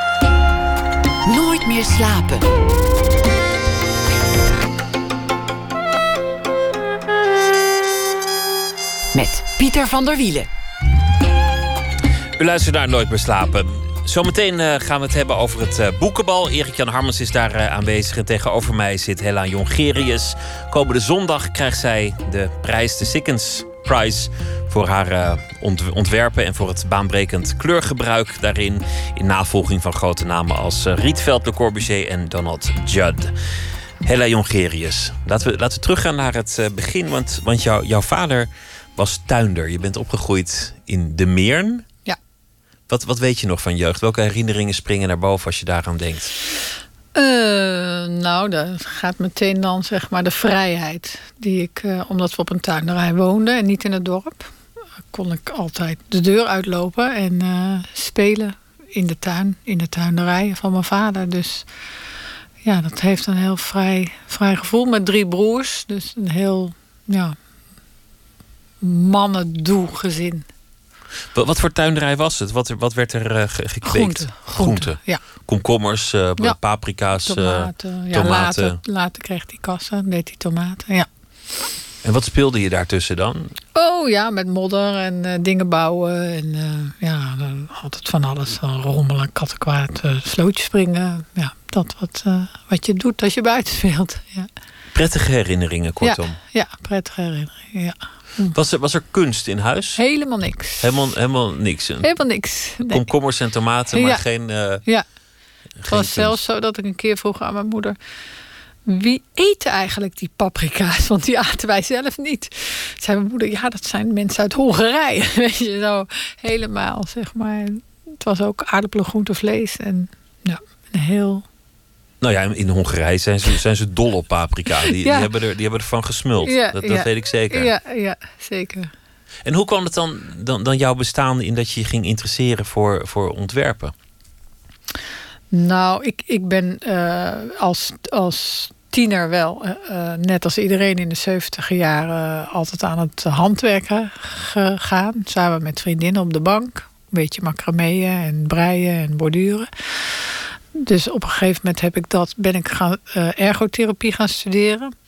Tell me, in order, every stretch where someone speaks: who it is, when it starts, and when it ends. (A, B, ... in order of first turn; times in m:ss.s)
0:01.2-0:02.5 A
0:09.1-0:10.5 A
0:12.4-0:33.4 B
0:34.0-0:41.9 B
0:42.9-0:46.3 B
0:47.2-0:54.5 C
0:55.1-1:01.7 C
1:02.6-1:07.4 C
1:08.8-1:10.5 C
1:11.3-1:18.8 B
1:13.8-1:15.2 C
1:17.2-1:21.1 C
1:22.0-1:23.6 B
1:23.8-1:34.5 C
1:34.9-1:36.4 B
1:36.0-1:38.6 C
1:38.5-1:40.0 B
1:40.0-1:40.9 C
1:40.8-1:42.2 B
1:42.0-1:43.1 C
1:42.8-1:44.8 B
1:43.9-1:44.2 C
1:45.8-1:46.4 B
1:45.9-1:48.0 C
1:48.9-2:01.4 C
2:02.2-2:07.7 B
2:04.9-2:05.3 C
2:06.4-2:08.9 C
2:09.4-2:13.9 B
2:15.5-2:34.9 C